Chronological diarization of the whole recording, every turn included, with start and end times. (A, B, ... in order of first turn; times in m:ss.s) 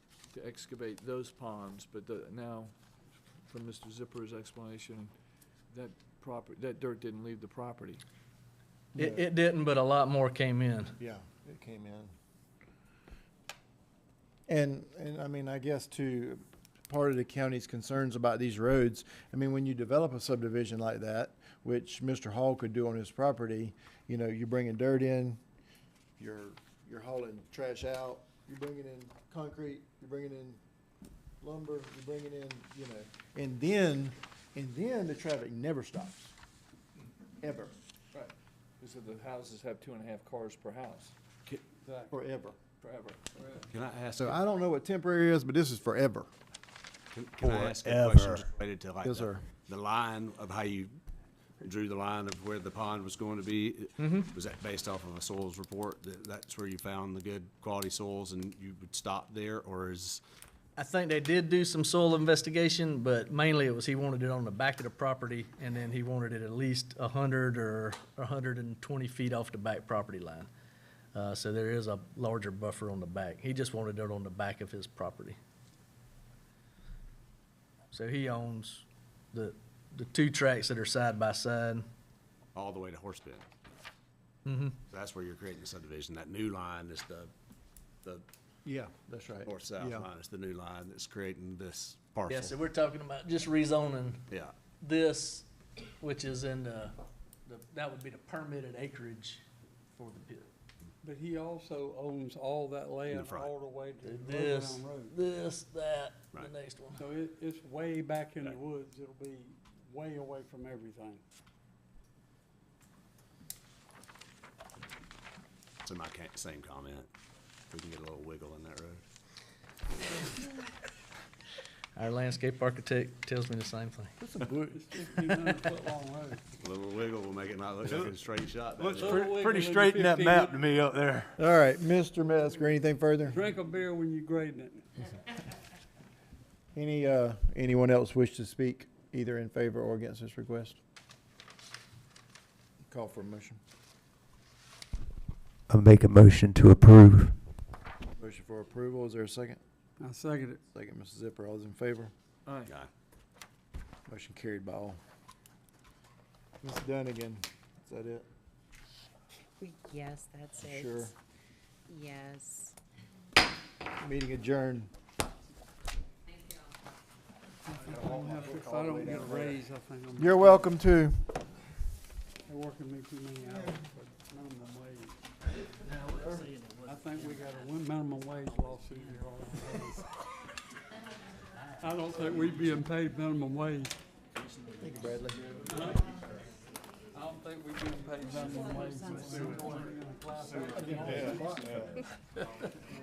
0:00.3-0:02.7 A
0:03.5-0:05.1 A
0:05.7-0:08.0 A
0:09.0-0:11.0 B
0:09.0-0:09.2 C
0:11.0-0:12.1 C
0:14.5-0:25.4 C
0:26.2-0:30.6 C
0:31.4-0:36.3 C
0:37.4-0:37.7 C
0:38.1-0:41.1 A
0:41.8-0:42.1 D
0:42.1-0:42.6 C
0:42.8-0:43.2 A
0:43.7-0:44.4 E
0:44.2-0:46.3 C
0:47.1-0:51.0 E
0:47.4-0:48.4 B
0:49.0-0:49.4 C
0:51.6-1:00.2 E
0:54.0-0:54.3 B
1:00.8-1:10.5 B
1:11.1-1:15.4 B
1:17.9-1:21.9 B
1:22.6-1:23.4 E
1:24.4-1:24.8 B
1:24.9-1:27.3 E
1:28.6-1:30.1 C
1:29.4-1:32.6 E
1:32.3-1:34.2 B
1:34.8-1:35.5 B
1:36.0-1:39.4 B
1:39.9-1:40.5 B
1:41.0-1:45.2 D
1:43.1-1:43.5 E
1:44.0-1:47.0 B
1:47.0-1:51.2 D
1:55.8-1:57.1 E
1:57.7-1:59.0 E
2:02.0-2:04.2 B
2:04.2-2:06.4 D
2:06.6-2:09.3 E
2:08.8-2:11.3 F
2:08.9-2:10.8 D
2:11.4-2:13.4 C
2:13.2-2:14.8 D
2:16.7-2:20.8 C
2:22.9-2:23.6 C
2:25.7-2:27.4 F
2:28.2-2:29.6 C
2:30.0-2:30.6 D
2:30.7-2:32.1 C
2:32.5-2:32.7 A
2:34.1-2:35.0 C
2:36.6-2:38.2 C
2:39.6-2:41.1 G
2:40.6-2:41.1 C
2:41.9-2:42.8 G
2:44.0-2:44.9 C
2:47.7-2:50.8 D
2:47.8-2:49.6 C
2:50.2-2:51.3 C
2:52.5-2:55.2 D
2:56.8-3:00.1 D
3:01.8-3:03.9 D
3:04.8-3:05.5 C
3:05.7-3:06.0 D
3:07.1-3:11.8 D
3:10.5-3:12.0 C